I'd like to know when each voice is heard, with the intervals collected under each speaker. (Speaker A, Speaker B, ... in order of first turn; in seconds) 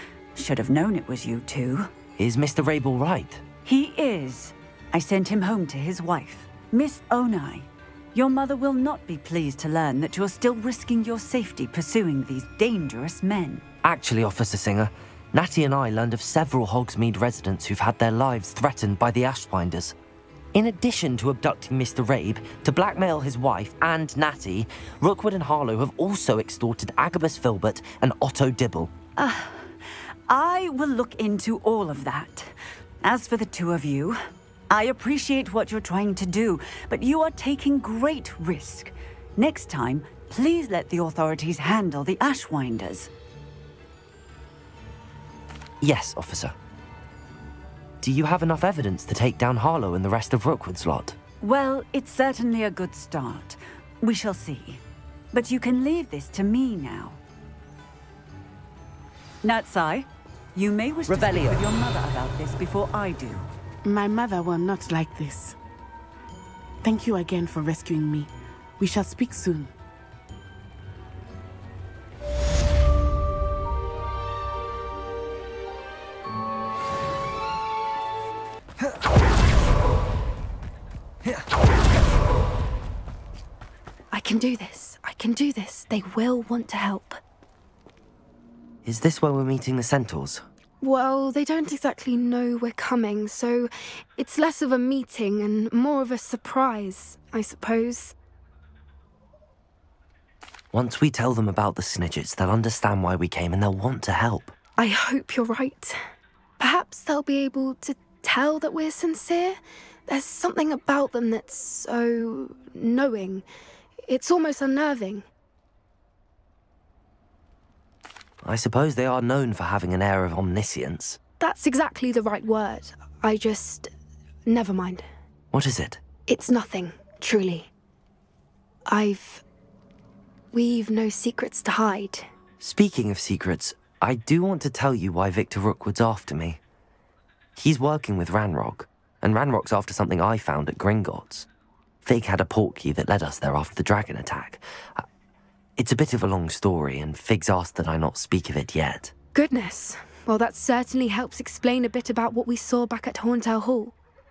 Speaker A: 0.3-1.9, 3.6-13.7, 29.2-29.8, 30.3-43.1, 51.4-57.2, 59.4-63.5
Speaker B: 2.2-3.4, 13.8-19.9, 20.5-28.9, 45.8-46.5, 48.0-51.2, 61.1-61.4, 88.8-90.4, 100.7-104.5, 118.4-121.2, 125.5-126.0, 132.6-136.6, 137.6-141.5, 142.0-145.1, 145.8-149.1
Speaker C: 63.9-65.6, 66.8-69.7
Speaker D: 84.1-87.2, 90.8-98.1, 104.8-106.0, 106.6-113.5, 114.1-115.3, 121.4-123.9, 124.5-125.0, 126.3-127.7, 128.9-129.4, 130.5-132.3, 149.3-153.9